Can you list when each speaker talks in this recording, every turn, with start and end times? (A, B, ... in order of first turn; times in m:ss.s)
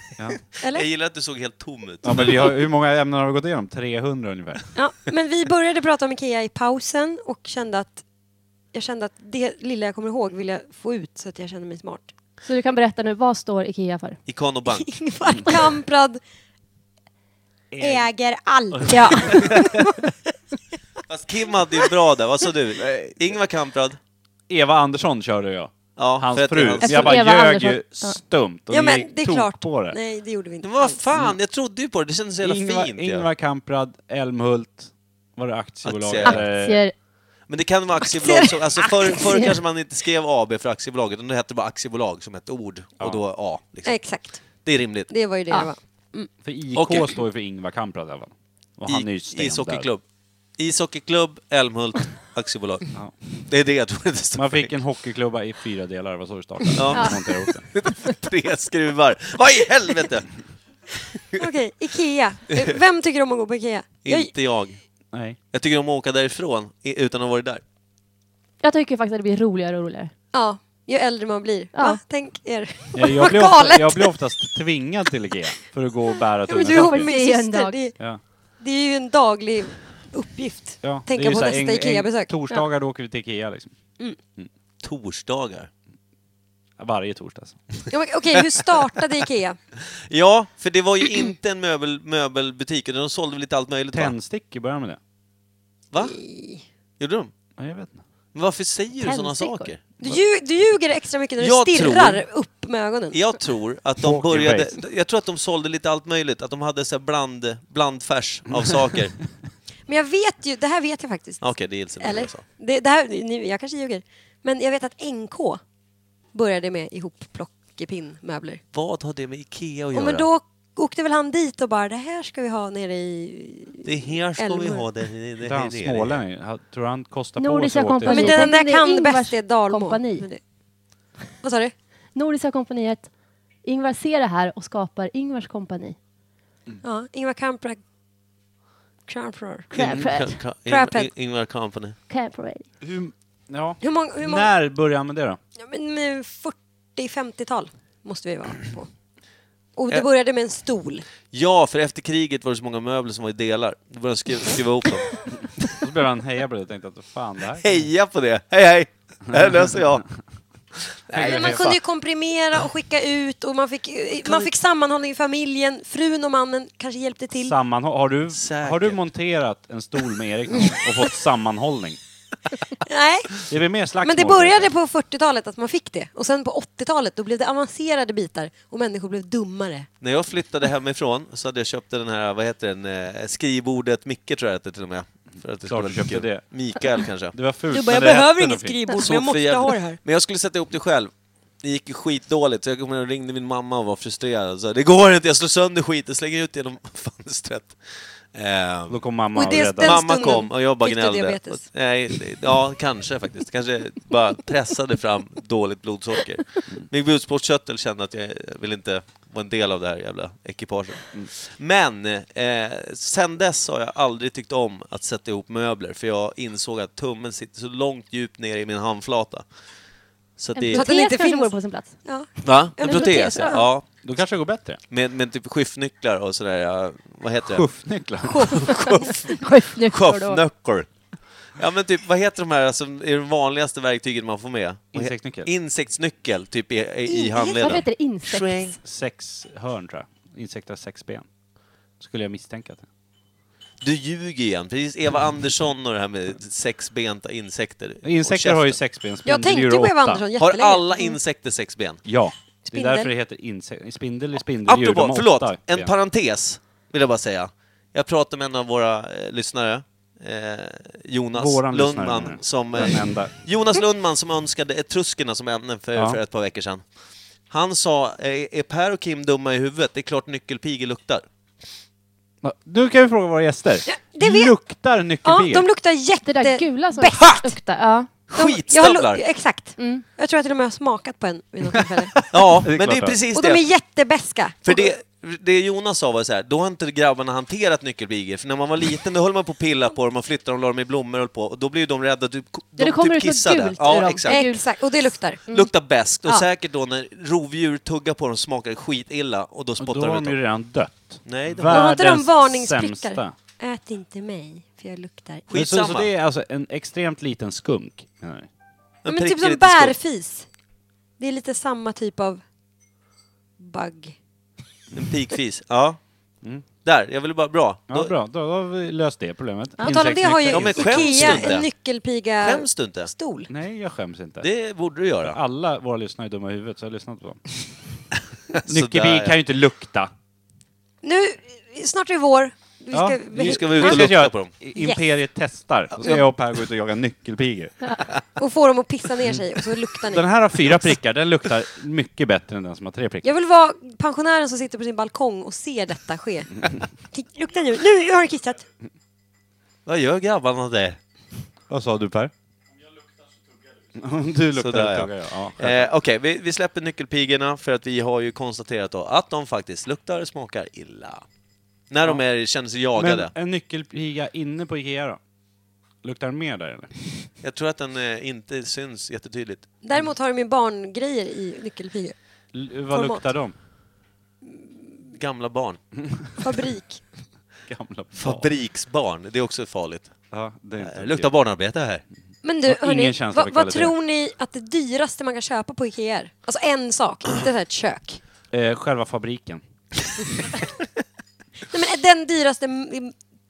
0:00.5-0:02.6 A
0:00.6-0:00.9 B
0:02.0-0:04.7 C
0:04.7-0:08.0 B
0:08.7-0:12.1 B
0:12.4-0:14.2 D
0:14.3-0:14.9 A
0:14.7-0:16.2 B
0:17.7-0:18.1 C
0:17.8-0:19.8 B
0:18.7-0:19.9 C
0:18.9-0:19.5 D
0:21.1-0:24.0 A
0:22.8-0:23.1 C
0:24.5-0:30.0 C
0:26.0-0:27.2 A
0:26.8-0:28.2 D
0:28.7-0:31.0 B
0:30.6-0:33.3 A
0:32.4-0:36.8 C
0:35.8-0:36.4 A
0:36.2-0:36.9 D
0:37.5-0:45.1 A
0:38.1-0:39.5 B
0:43.8-0:44.4 B
0:45.1-0:46.3 B
0:46.4-0:49.9 C
0:46.7-0:47.1 A
0:48.9-0:50.0 A
0:50.6-0:52.9 A
0:53.4-0:54.7 A
0:54.4-0:57.7 C
0:56.7-1:00.3 A
0:56.9-0:57.2 D
1:01.4-1:04.3 B
1:04.0-1:04.8 A
1:05.1-1:05.4 C
1:05.5-1:07.6 A
1:08.6-1:10.1 D
1:10.3-1:14.2 B
1:11.7-1:12.0 D
1:13.0-1:17.1 C
1:16.5-1:18.0 B
1:16.6-1:17.9 D
1:18.6-1:22.4 B
1:20.8-1:23.7 C
1:24.8-1:25.7 A
1:26.8-1:27.6 C
1:27.9-1:29.6 B
1:29.9-1:34.1 A
1:33.9-1:35.0 C
1:36.0-1:36.6 B
1:37.0-1:37.3 A
1:37.6-1:38.0 C
1:38.4-1:40.2 A
1:39.1-1:43.2 B
1:41.4-1:42.2 A
1:43.1-1:49.2 A
1:44.0-1:44.7 C
1:48.5-1:48.8 C
1:49.9-1:51.4 B
1:51.4-1:52.4 A
1:52.0-1:55.6 B
1:56.3-1:58.6 B
1:58.7-2:00.3 A
1:59.9-2:04.9 B
2:03.8-2:06.2 A
2:05.4-2:08.5 C
2:07.4-2:10.3 D
2:08.1-2:10.4 B
2:11.4-2:11.7 B
2:12.1-2:13.1 D
2:13.6-2:16.0 D
2:16.8-2:17.8 B
2:19.1-2:19.7 B
2:19.7-2:20.4 D
2:19.7-2:22.0 A
2:19.8-2:20.1 C
2:20.7-2:21.1 B
2:22.1-2:22.6 D
2:22.8-2:25.4 C
2:23.8-2:24.5 B
2:25.6-2:28.9 B
2:29.8-2:31.1 B
2:31.3-2:35.6 A
2:35.8-2:37.9 C
2:37.6-2:40.0 A
2:39.3-2:40.0 C
2:40.9-2:41.8 A
2:41.1-2:41.7 C
2:41.2-2:47.6 B
2:47.4-2:52.0 C
2:48.3-2:49.0 A
2:52.8-2:53.4 B
2:53.5-2:54.7 C
2:54.0-2:59.9 B
3:00.0-3:07.4 A
3:05.7-3:06.4 C
3:07.3-3:08.8 C
3:07.7-3:10.0 B
3:09.0-3:19.0 A
3:18.9-3:20.1 C
3:19.4-3:21.6 B
3:19.8-3:39.4 A
3:40.4-3:40.9 A
3:40.6-3:42.0 D
3:40.7-3:43.6 B
3:42.4-3:43.9 A
3:42.8-3:43.6 D
3:44.0-3:44.8 C
3:44.9-3:47.7 A
3:47.4-3:48.6 C
3:48.5-3:50.9 A
3:49.4-3:50.4 D
3:51.6-3:58.8 A
3:54.9-3:55.5 C
3:57.1-3:57.8 B
3:57.6-3:58.7 D
3:58.8-4:01.3 C
4:02.0-4:02.9 C
4:03.8-4:08.8 A
4:08.0-4:10.2 C
4:09.2-4:11.2 B
4:10.4-4:12.0 A
4:12.0-4:15.9 C
4:12.6-4:13.1 B
4:14.6-4:26.8 A
4:21.3-4:23.3 C
4:27.5-4:31.2 A
4:32.4-4:35.7 C
4:33.9-4:34.5 B
4:35.2-4:37.4 B
4:36.2-4:38.1 D
4:37.1-4:37.4 A
4:38.3-4:39.2 A
4:38.3-4:42.2 B
4:39.8-4:40.0 D
4:42.3-4:43.2 C
4:42.3-4:43.6 A
4:43.3-4:44.9 B
4:44.7-4:54.4 A
4:52.8-4:55.7 D
4:54.3-4:55.4 B
4:55.5-5:00.4 A
4:59.8-5:03.4 C
5:01.2-5:02.0 A
5:01.7-5:05.4 B
5:05.5-5:06.1 A
5:05.5-5:08.5 C
5:09.0-5:10.0 A
5:09.1-5:10.5 B
5:11.2-5:12.4 B
5:13.6-5:14.2 B
5:14.9-5:16.0 A
5:16.8-5:18.1 A
5:17.9-5:21.6 C
5:19.8-5:23.5 B
5:20.4-5:21.7 A
5:22.4-5:23.1 A
5:23.5-5:24.5 C
5:24.4-5:25.4 A
5:25.2-5:27.6 C
5:28.5-5:29.4 A
5:28.7-5:30.1 C
5:31.0-5:34.1 B
5:32.9-5:37.8 C
5:33.3-5:34.5 A
5:34.7-5:35.0 B
5:38.4-5:40.3 B
5:40.1-5:43.2 C
5:43.2-5:48.7 B
5:49.9-5:51.0 A
5:51.7-5:52.3 C
5:54.0-5:55.9 C
5:54.6-6:01.2 A
6:01.9-6:03.3 A
6:03.0-6:05.2 C
6:06.0-6:06.9 C
6:07.4-6:09.7 A
6:09.8-6:12.2 B
6:12.5-6:13.6 C
6:12.9-6:13.2 B
6:15.1-6:15.8 A
6:16.4-6:17.0 B
6:17.7-6:18.5 C
6:18.2-6:20.1 A
6:20.3-6:21.3 C
6:20.8-6:22.0 A
6:22.4-6:28.2 B
6:22.7-6:24.0 C
6:28.5-6:29.6 C
6:31.7-6:33.1 B